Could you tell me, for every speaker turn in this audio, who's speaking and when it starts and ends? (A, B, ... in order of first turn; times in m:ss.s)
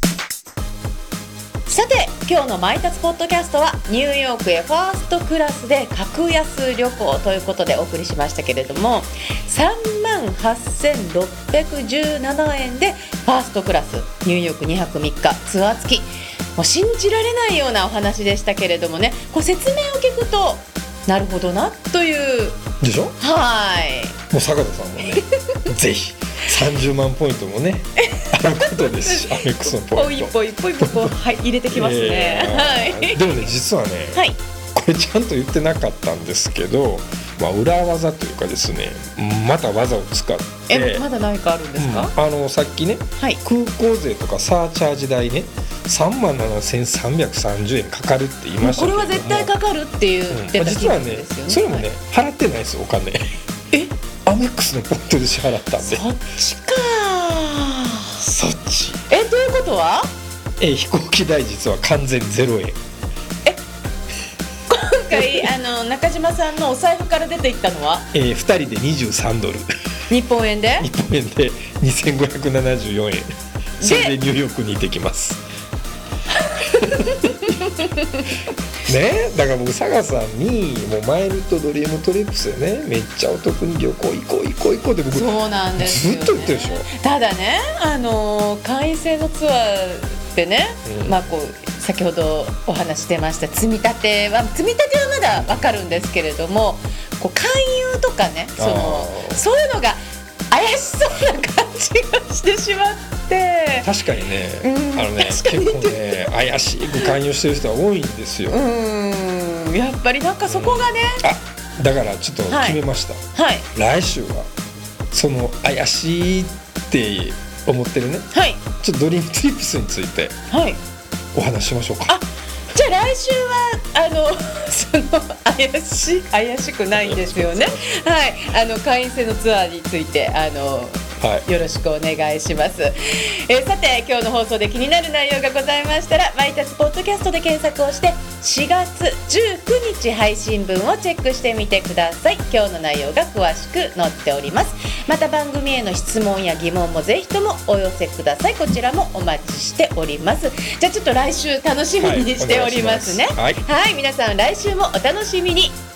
0:01.7-0:22.6 A
0:22.8-0:23.2 B
0:23.2-0:24.2 A
0:24.3-0:31.1 B
0:28.0-0:33.5 A
0:31.7-0:41.0 B
0:34.1-0:34.4 A
0:40.7-0:42.1 A
0:41.8-0:49.5 B
0:48.6-0:51.9 A
0:50.3-0:53.3 B
0:54.2-0:56.0 B
0:55.8-1:00.1 A
0:58.4-0:59.0 B
1:00.6-1:02.8 B
1:04.7-1:08.1 A
1:08.1-1:09.7 B
1:10.1-1:10.9 A
1:10.8-1:13.3 B
1:13.8-1:15.4 B
1:13.8-1:14.1 A
1:16.3-1:18.3 A
1:16.8-1:17.5 B
1:18.8-1:26.9 B
1:25.1-1:40.0 A
1:30.8-1:31.2 B
1:35.3-1:36.0 B
1:38.6-1:39.4 B
1:40.5-1:43.9 A
1:43.8-1:48.6 B
1:44.6-1:47.2 A
1:48.5-1:51.2 A
1:50.4-1:53.2 B
1:52.5-1:52.8 A
1:53.3-1:53.7 A
1:53.7-1:54.5 B
1:55.1-2:00.3 B
1:58.3-1:58.6 A
2:00.5-2:00.8 A
2:01.3-2:02.2 B
2:02.1-2:35.8 A
2:06.9-2:07.9 B
2:11.2-2:11.4 B
2:32.0-2:33.6 B